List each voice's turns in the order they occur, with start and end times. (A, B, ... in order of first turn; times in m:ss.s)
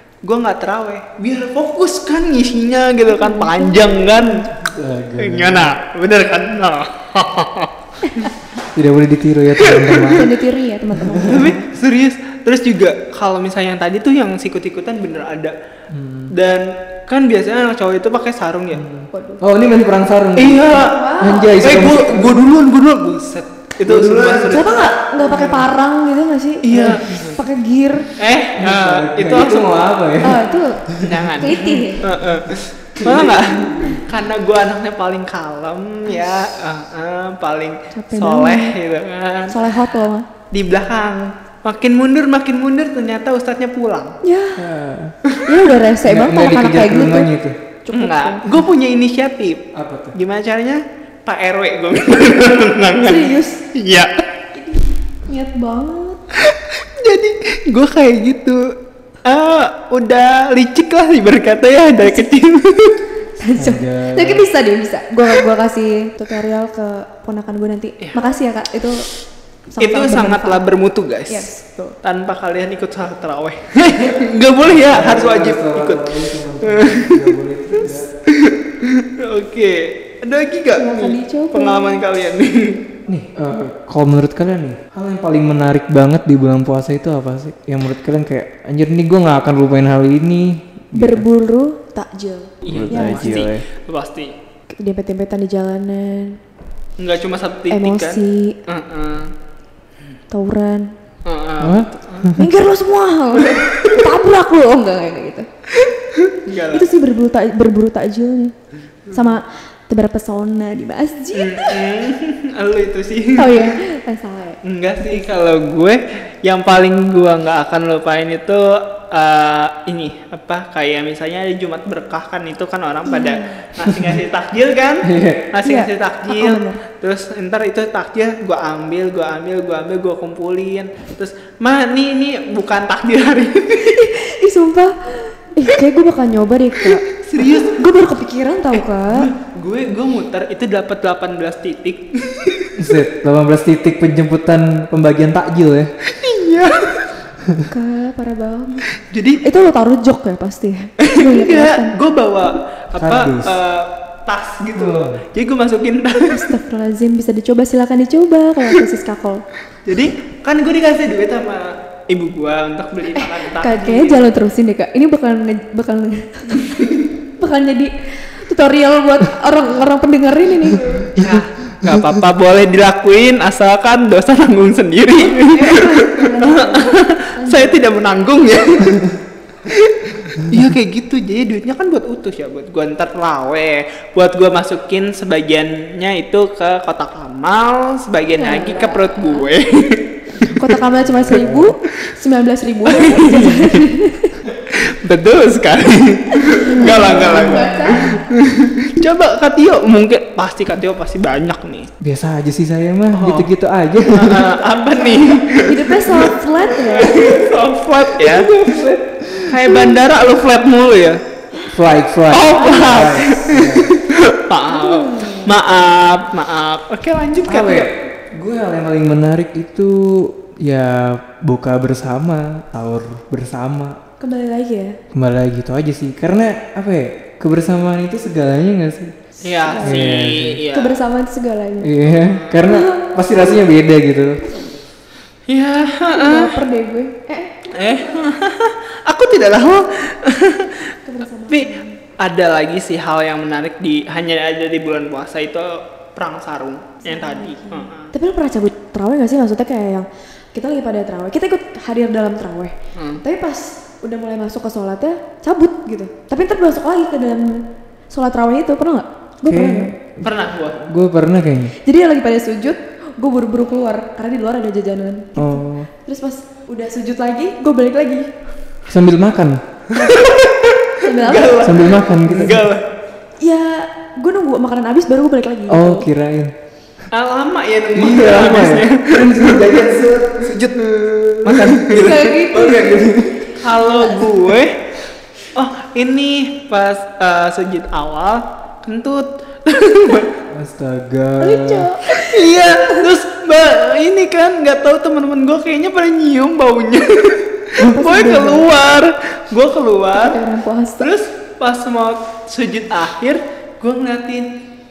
0:00.2-0:04.5 A
0:03.1-0:04.2 B
0:04.6-0:05.8 C
0:05.2-0:08.3 A
0:08.0-0:08.3 B
0:08.7-0:10.3 C
0:09.6-0:10.2 A
0:10.1-0:11.6 B
0:10.9-0:11.6 C
0:11.3-0:15.6 A
0:15.9-0:16.3 C
0:16.3-0:18.8 A
0:18.7-0:22.4 C
0:19.1-0:19.4 B
0:20.4-0:21.0 A
0:20.6-0:21.6 B
0:21.6-0:25.4 A
0:23.8-0:24.8 C
0:24.5-0:28.1 B
0:26.6-0:27.4 A
0:26.8-0:27.2 C
0:28.2-0:29.8 A
0:28.6-0:31.6 C
0:30.2-0:30.8 B
0:31.0-0:39.7 A
0:31.4-0:32.0 B
0:32.5-0:34.0 C
0:37.9-0:38.8 B
0:39.5-0:40.3 B
0:40.5-0:44.2 A
0:44.2-0:44.7 B
0:44.6-0:45.2 C
0:45.4-0:47.3 B
0:46.0-0:47.6 C
0:47.8-0:48.5 B
0:47.9-0:54.2 A
0:49.7-0:50.2 C
0:53.0-0:53.6 B
0:54.5-0:56.2 B
0:56.4-1:03.0 A
1:02.0-1:02.3 B
1:03.4-1:09.0 B
1:03.6-1:04.5 C
1:09.7-1:10.6 B
1:09.8-1:11.5 A
1:11.3-1:12.0 B
1:12.0-1:17.3 A
1:14.7-1:18.1 C
1:17.8-1:22.8 A
1:20.8-1:22.0 B
1:23.1-1:31.3 C
1:30.9-1:33.4 B
1:32.6-1:34.3 A
1:32.7-1:33.6 C
1:34.7-1:36.4 B
1:37.0-1:39.3 A
1:37.7-1:38.6 B
1:40.3-1:40.9 B
1:41.2-1:42.4 A
1:41.6-1:42.4 C
1:42.4-1:45.5 B
1:45.8-1:46.9 A
1:46.7-1:48.6 B
1:49.1-1:51.8 B
1:51.4-1:53.8 A
1:53.4-1:54.6 B
1:54.6-2:14.1 A
2:03.1-2:03.6 B
2:03.9-2:04.2 C
2:05.0-2:05.5 C
2:05.6-2:06.8 B
2:13.9-2:19.3 B
2:17.1-2:17.8 A
2:18.8-2:22.7 A
2:22.8-2:25.9 C
2:26.1-2:27.1 A
2:27.4-2:27.7 C
2:27.7-2:28.9 B
2:29.0-2:29.4 A
2:29.4-2:32.0 B
2:31.0-2:36.5 A
2:33.0-2:33.6 C
2:34.8-2:35.2 C
2:36.3-2:39.4 B
2:39.9-2:44.3 A
2:43.2-2:51.1 B
2:51.1-2:59.1 A
2:51.2-2:52.1 C
2:55.2-2:57.8 B
2:59.7-3:10.0 A
3:08.4-3:09.5 B
3:10.5-3:14.4 B
3:10.9-3:11.7 C
3:12.9-3:13.8 A
3:14.6-3:21.9 A
3:16.3-3:18.2 B
3:22.0-3:24.5 C
3:23.1-3:23.5 A
3:24.1-3:28.5 A
3:24.9-3:27.3 B
3:28.2-3:29.7 C
3:29.5-3:31.2 A
3:31.6-3:34.0 C
3:32.3-3:37.9 A
3:34.7-3:35.6 B
3:37.4-3:44.0 C
3:44.2-3:45.0 B
3:45.1-3:49.2 C
3:49.4-3:50.2 B
3:49.4-3:51.0 A
3:49.8-3:50.6 C
3:50.7-3:52.0 B
3:51.8-3:54.5 C
3:52.1-3:52.6 A
3:52.6-3:53.2 B
3:55.5-3:56.6 A
3:56.1-3:57.7 B
3:57.7-4:00.9 A
4:01.0-4:02.0 B
4:01.5-4:08.1 A
4:07.0-4:19.9 B
4:13.0-4:13.2 A
4:19.4-4:20.3 C
4:20.2-4:20.9 A
4:20.9-4:21.8 C
4:21.8-4:28.3 B
4:25.4-4:25.9 C
4:28.9-4:29.6 C
4:29.9-4:32.8 A
4:31.0-4:31.8 B
4:31.6-4:32.7 C
4:33.4-4:36.1 B
4:35.7-4:36.5 C
4:37.1-4:39.8 A
4:37.9-4:43.5 C
4:41.4-4:42.8 A
4:41.9-4:44.3 B
4:43.6-4:44.8 A
4:45.5-4:50.4 A
4:50.5-4:51.9 C
4:51.4-4:53.1 B
4:52.1-5:00.4 A
4:57.8-4:58.7 B
5:00.1-5:01.1 B
5:01.0-5:04.5 A